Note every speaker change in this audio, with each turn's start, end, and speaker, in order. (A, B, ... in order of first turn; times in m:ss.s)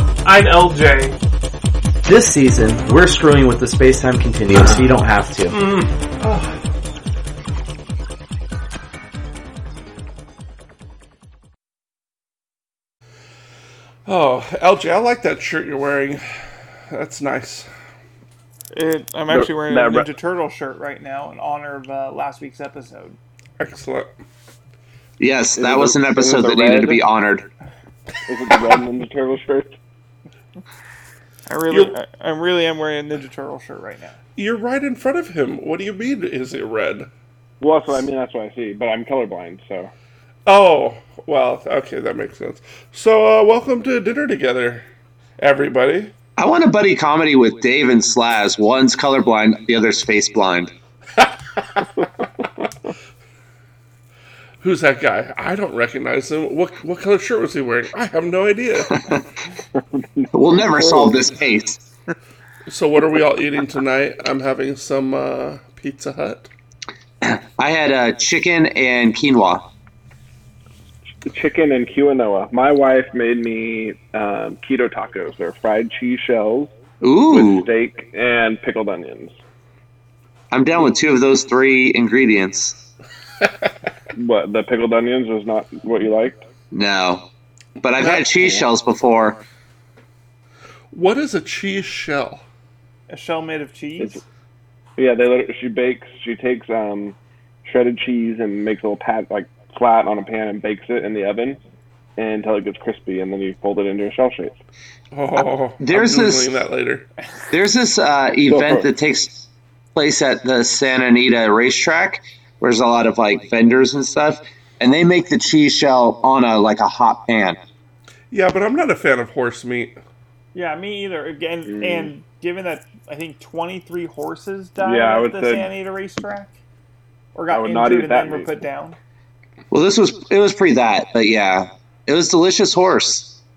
0:00.2-0:01.2 A
0:02.0-0:05.6 B
0:05.7-0:06.4 C
0:14.0-0:17.7 C
0:18.7-0:23.2 A
0:19.3-0:20.1 D
0:23.6-0:24.1 C
0:25.2-0:27.5 E
0:25.6-0:27.0 D
0:28.3-0:29.7 D
0:31.5-0:34.2 A
0:31.7-0:32.0 C
0:34.4-0:37.1 C
0:37.6-0:39.9 D
0:40.4-0:44.8 C
0:45.4-0:46.1 C
0:46.4-0:50.7 E
0:51.2-0:51.8 C
0:54.6-0:59.2 C
0:59.7-1:01.3 D
1:00.3-1:01.8 E
1:02.7-1:06.5 C
1:07.2-1:09.6 E
1:11.2-1:16.7 D
1:17.0-1:17.7 E
1:17.3-1:19.3 D
1:20.5-1:22.8 E
1:24.1-1:26.4 D
1:26.7-1:27.3 E
1:27.8-1:29.4 E
1:30.9-1:32.4 C
1:33.1-1:34.2 A
1:35.0-1:41.6 D
1:42.2-1:44.6 D
1:45.1-1:47.1 C
1:45.4-1:46.6 E
1:47.5-1:57.6 E
1:48.5-1:48.9 D
1:58.3-2:00.0 C
2:00.5-2:06.6 A
2:01.7-2:02.1 D
2:04.8-2:05.7 D
2:07.3-2:09.0 A
2:07.5-2:08.5 D
2:09.7-2:13.4 E